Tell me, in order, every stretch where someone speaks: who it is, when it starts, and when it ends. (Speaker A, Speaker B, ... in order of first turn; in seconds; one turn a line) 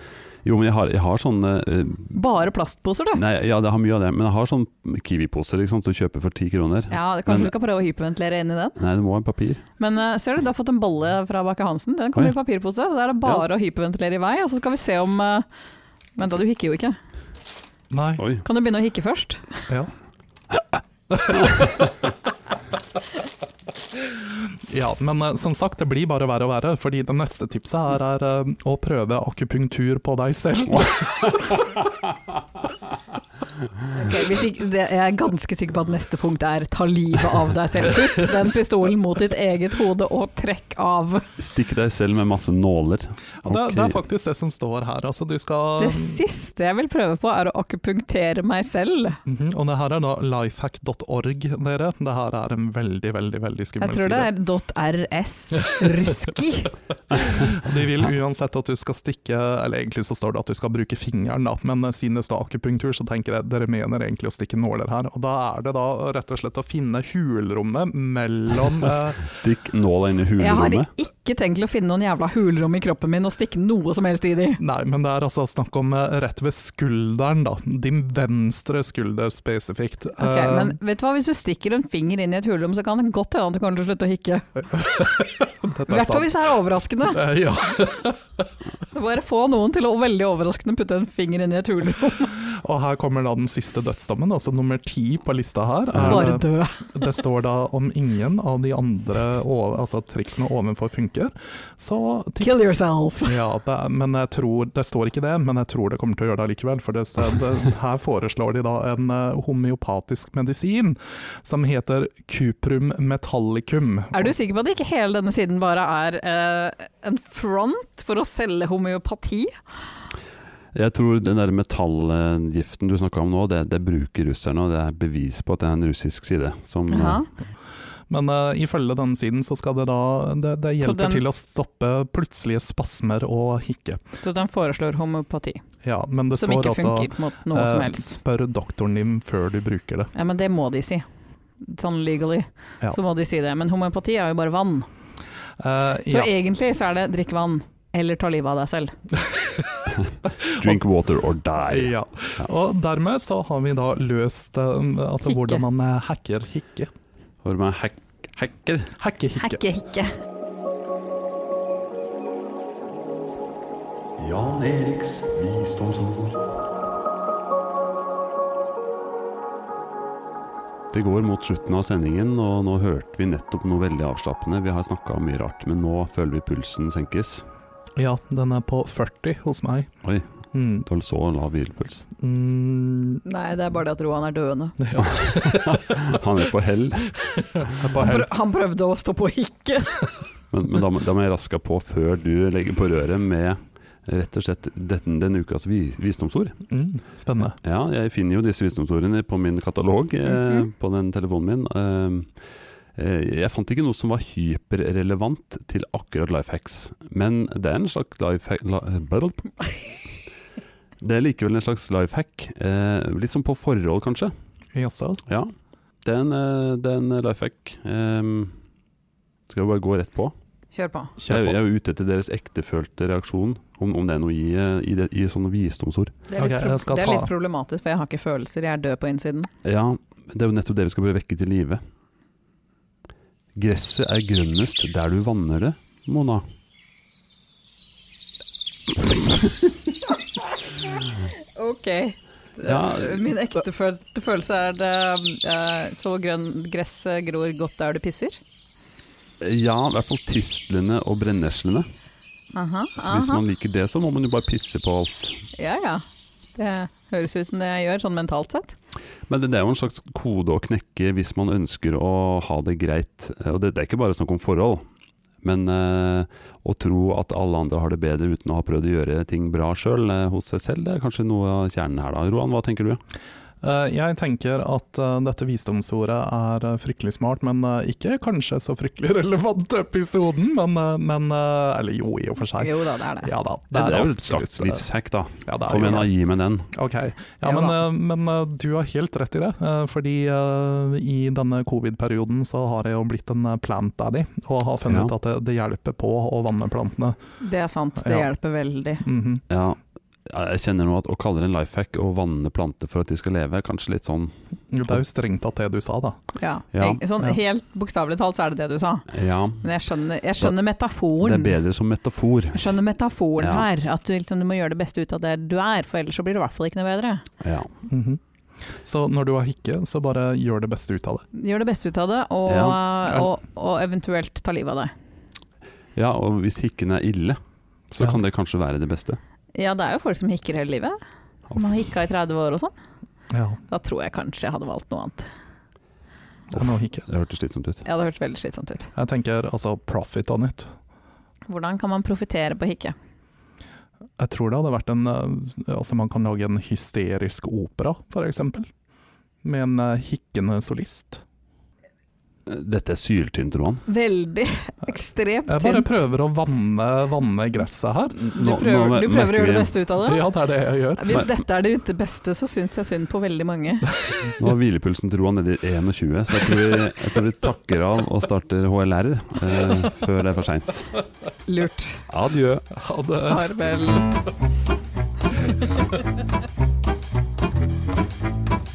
Speaker A: 0.4-2.1
Speaker B: 2.1-3.2
Speaker A: 3.1-7.5
Speaker B: 6.9-8.8
Speaker A: 8.8-9.6
Speaker B: 9.8-15.5
Speaker B: 16.2-17.0
Speaker C: 17.9-18.2
Speaker A: 18.2-18.4
Speaker B: 18.4-19.7
Speaker C: 21.1-21.8
Speaker C: 24.7-31.5
Speaker A: 30.9-32.0
Speaker B: 34.0-41.3
Speaker A: 41.4-44.0
Speaker C: 43.4-46.2
Speaker B: 45.8-49.2
Speaker C: 49.3-54.3
Speaker B: 53.8-56.7
Speaker C: 57.1-69.2
Speaker A: 69.2-70.9
Speaker B: 70.4-74.6
Speaker C: 74.6-80.8
Speaker B: 80.2-84.6
Speaker C: 84.7-86.3
Speaker B: 85.9-87.3
Speaker C: 87.1-88.4
Speaker B: 88.9-92.4
Speaker C: 92.4-114.3
Speaker A: 96.0-96.2
Speaker B: 96.0-97.2
Speaker B: 102.4-103.4
Speaker B: 114.1-119.6
Speaker A: 120.7-127.2
Speaker B: 126.9-127.3
Speaker C: 128.1-134.0
Speaker B: 130.8-131.2
Speaker B: 134.2-135.6
Speaker C: 135.8-140.1
Speaker B: 136.3-138.2
Speaker B: 140.1-141.1
Speaker B: 141.6-144.9
Speaker C: 145.6-146.3
Speaker B: 146.1-148.9
Speaker C: 149.3-150.8
Speaker A: 149.9-152.5
Speaker C: 151.7-156.9
Speaker B: 155.3-155.6
Speaker A: 157.4-158.9
Speaker C: 159.0-159.6
Speaker B: 159.4-160.1
Speaker A: 164.2-166.4
Speaker A: 170.9-177.5
Speaker C: 178.0-179.9
Speaker C: 180.5-180.9
Speaker A: 180.8-182.1
Speaker C: 182.2-183.2
Speaker B: 183.2-184.9
Speaker C: 184.8-186.2
Speaker A: 185.0-187.1
Speaker C: 187.6-188.3
Speaker B: 188.0-190.1
Speaker A: 190.5-196.6
Speaker C: 196.7-197.6
Speaker A: 197.6-202.3
Speaker A: 202.9-209.9
Speaker A: 211.0-214.3
Speaker C: 214.7-215.2
Speaker A: 216.0-218.6
Speaker A: 219.5-220.3
Speaker B: 220.7-221.2
Speaker C: 221.2-221.6
Speaker A: 221.3-226.2
Speaker B: 226.3-229.5
Speaker C: 226.4-227.3
Speaker A: 229.6-231.8
Speaker A: 233.6-236.4
Speaker B: 241.6-248.4
Speaker A: 242.6-243.2
Speaker A: 249.4-251.9
Speaker B: 252.5-253.4
Speaker A: 253.0-255.4
Speaker B: 255.6-256.0
Speaker B: 256.6-258.8
Speaker A: 259.3-264.8
Speaker A: 265.4-273.0
Speaker C: 273.6-284.8
Speaker B: 282.6-283.3
Speaker A: 283.7-286.7
Speaker C: 285.5-286.1
Speaker C: 286.7-297.2
Speaker B: 287.4-287.8
Speaker A: 294.9-295.1
Speaker B: 297.4-299.1
Speaker C: 298.0-298.3
Speaker C: 299.0-299.4
Speaker A: 299.5-304.3
Speaker C: 304.7-306.2
Speaker B: 306.4-309.1
Speaker A: 306.7-307.0
Speaker A: 309.1-309.7
Speaker B: 309.6-311.6
Speaker A: 311.2-312.8
Speaker B: 312.5-317.2
Speaker A: 313.4-313.7
Speaker A: 317.4-317.7
Speaker C: 317.9-318.2
Speaker C: 318.8-321.2
Speaker B: 321.3-324.9
Speaker A: 322.5-322.8
Speaker A: 326.0-327.4
Speaker A: 327.9-329.2
Speaker B: 329.6-331.0
Speaker B: 331.6-332.7
Speaker C: 333.3-333.6
Speaker B: 333.7-335.3
Speaker C: 336.5-337.1
Speaker A: 336.6-337.8
Speaker B: 337.9-338.9
Speaker C: 338.9-340.7
Speaker B: 341.5-342.9
Speaker C: 344.2-348.7
Speaker C: 349.4-351.2
Speaker A: 352.5-353.9
Speaker B: 353.9-356.0
Speaker C: 355.5-358.2
Speaker A: 358.2-359.8
Speaker B: 358.3-360.3
Speaker C: 360.0-361.2
Speaker B: 361.0-364.0
Speaker A: 364.4-371.0
Speaker B: 371.5-372.0
Speaker A: 372.1-372.7
Speaker C: 372.8-373.6
Speaker B: 373.3-374.1